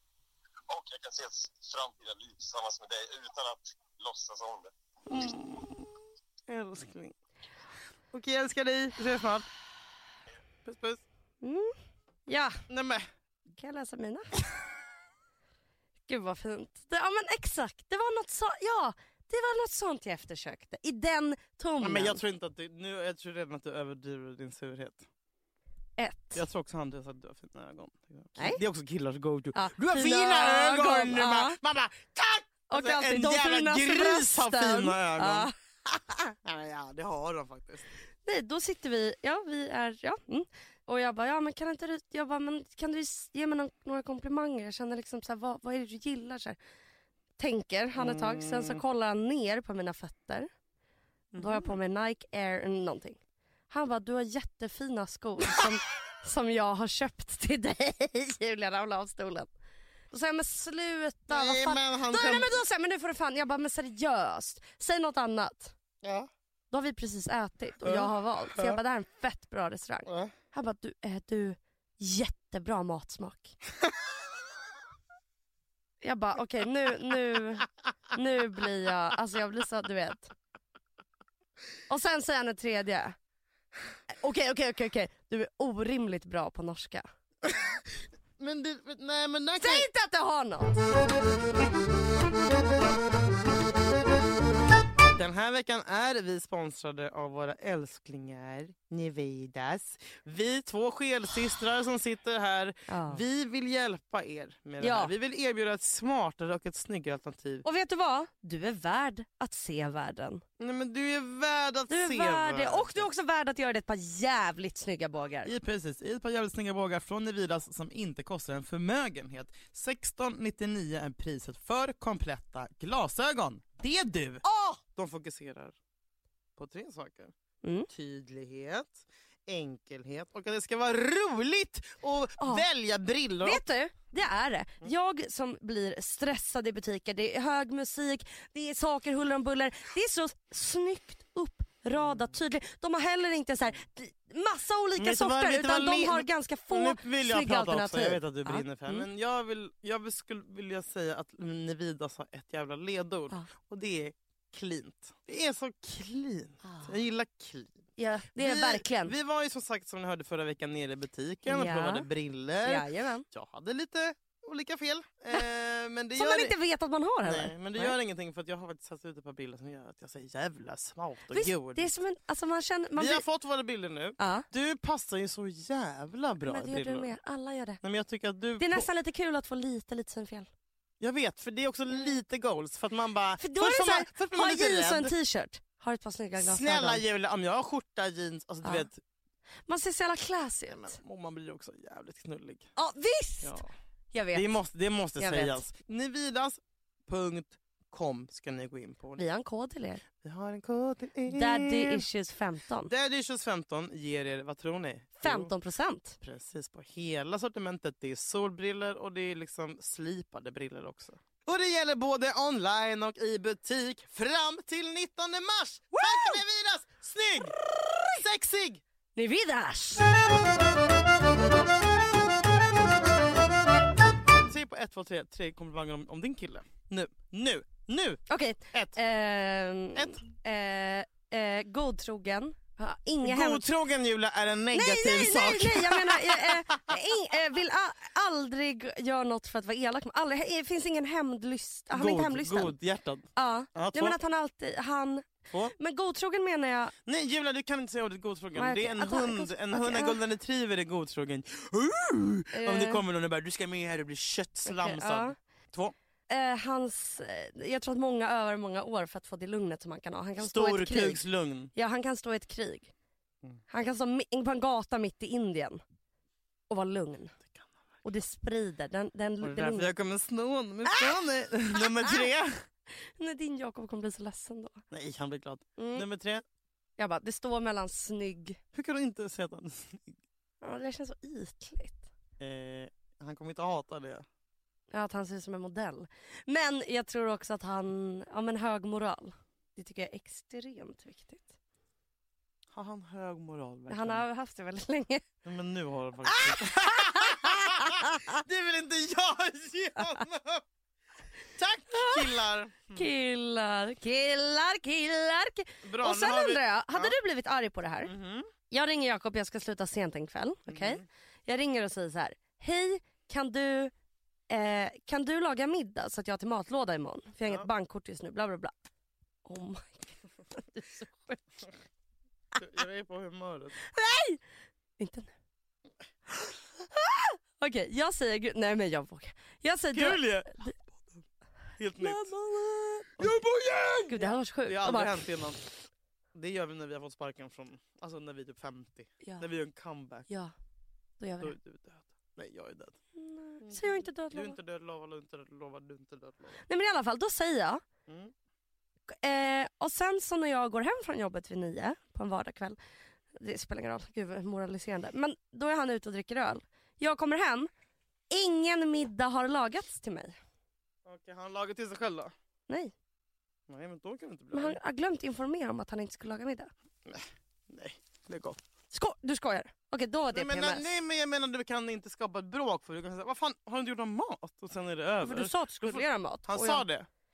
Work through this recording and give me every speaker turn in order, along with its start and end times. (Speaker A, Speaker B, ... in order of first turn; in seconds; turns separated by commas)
Speaker A: 0.7-4.7, Speaker B: 5.1-5.9, Speaker B: 6.5-7.2, Speaker B: 8.1-9.5, Speaker B: 10.6-11.0, Speaker C: 11.4-11.7, Speaker C: 12.3-12.6, Speaker B: 12.7-13.1, Speaker C: 13.6-14.3, Speaker C: 16.1-22.2, Speaker B: 21.8-25.1, Speaker C: 26.0-26.4, Speaker B: 26.3-35.5, Speaker C: 29.5-31.6, Speaker C: 32.7-35.5, Speaker B: 36.4-37.9, Speaker C: 38.2-46.6, Speaker C: 47.4-50.5, Speaker B: 47.9-48.8, Speaker B: 51.3-51.8, Speaker C: 51.4-53.2, Speaker C: 53.7-59.5, Speaker C: 60.1-65.7, Speaker B: 61.3-62.5, Speaker B: 66.0-66.3, Speaker C: 66.7-73.5, Speaker B: 67.8-68.8, Speaker B: 70.1-70.3, Speaker C: 76.0-80.3, Speaker C: 81.9-83.2, Speaker C: 84.2-87.0, Speaker B: 87.4-87.8, Speaker B: 88.4-89.9, Speaker C: 89.6-90.8, Speaker B: 95.1-107.6, Speaker C: 102.9-103.2, Speaker C: 104.8-105.1, Speaker C: 107.6-110.4, Speaker B: 110.6-113.1, Speaker C: 111.9-115.5, Speaker B: 115.4-124.4, Speaker C: 124.4-124.8, Speaker B: 124.9-125.8, Speaker B: 126.6-127.3, Speaker C: 127.6-127.9, Speaker B: 127.9-133.6, Speaker C: 132.4-132.7, Speaker C: 133.4-149.1, Speaker B: 141.9-142.3, Speaker B: 145.0-157.8, Speaker C: 156.6-156.9, Speaker C: 158.0-159.1, Speaker B: 158.3-166.5, Speaker C: 161.5-162.1, Speaker C: 162.6-163.2, Speaker C: 166.2-167.9, Speaker B: 167.2-171.9, Speaker C: 171.3-173.2, Speaker B: 172.9-177.1, Speaker C: 174.2-174.4, Speaker C: 176.4-177.8, Speaker B: 177.8-178.9, Speaker C: 178.6-180.5, Speaker B: 181.0-185.1, Speaker C: 183.4-187.0, Speaker B: 186.4-189.0, Speaker C: 189.7-191.0, Speaker B: 190.7-192.7, Speaker C: 192.8-193.6, Speaker B: 193.4-193.7, Speaker C: 194.1-194.5, Speaker B: 194.3-199.2, Speaker C: 195.2-195.6, Speaker C: 199.2-200.0, Speaker B: 200.2-202.0, Speaker C: 201.3-202.9, Speaker B: 202.8-205.5, Speaker C: 205.2-206.2, Speaker B: 206.2-217.6, Speaker C: 216.0-216.4, Speaker C: 217.7-218.2, Speaker B: 218.1-218.8, Speaker C: 219.1-220.1, Speaker B: 224.4-228.2, Speaker C: 228.3-233.7, Speaker B: 228.7-229.0, Speaker B: 229.9-230.2, Speaker B: 233.2-237.0, Speaker C: 234.7-242.7, Speaker B: 241.9-244.2, Speaker C: 243.3-246.9, Speaker B: 247.1-255.9, Speaker C: 248.6-250.2, Speaker C: 252.5-253.0, Speaker C: 254.7-255.3, Speaker C: 256.3-262.9, Speaker B: 260.4-261.7, Speaker C: 263.7-265.8, Speaker C: 266.7-267.4, Speaker C: 268.0-269.9, Speaker B: 269.4-272.6, Speaker C: 270.9-271.2, Speaker C: 271.7-272.3, Speaker C: 272.9-274.8, Speaker B: 274.9-276.4, Speaker C: 275.8-276.1, Speaker C: 277.0-278.6, Speaker B: 278.7-280.2, Speaker C: 280.6-282.0, Speaker B: 282.4-284.2, Speaker C: 284.9-291.5, Speaker B: 292.7-294.2, Speaker C: 293.9-295.2, Speaker B: 295.4-300.6, Speaker C: 296.4-298.3, Speaker B: 301.5-303.1, Speaker C: 301.9-302.3, Speaker C: 302.9-308.1, Speaker B: 305.8-307.1, Speaker B: 308.0-308.5, Speaker C: 308.7-313.9, Speaker B: 310.7-311.0, Speaker C: 314.5-318.7, Speaker C: 319.4-321.4, Speaker B: 322.6-323.8, Speaker C: 323.8-324.4, Speaker C: 325.0-325.3, Speaker C: 326.9-330.7, Speaker B: 329.9-331.2, Speaker B: 331.8-332.3, Speaker C: 332.0-333.3, Speaker B: 333.2-335.6, Speaker C: 334.1-335.3, Speaker B: 336.3-340.3, Speaker C: 341.2-341.5, Speaker B: 341.4-343.0, Speaker C: 343.1-344.6, Speaker B: 343.6-346.6, Speaker C: 346.6-347.8, Speaker B: 348.1-348.3, Speaker C: 349.1-352.8, Speaker C: 353.4-357.7, Speaker C: 358.3-360.4, Speaker B: 361.0-362.3, Speaker B: 363.7-364.8, Speaker C: 364.5-366.7, Speaker B: 367.1-368.6, Speaker C: 368.9-370.8, Speaker B: 370.3-377.1, Speaker C: 375.2-376.8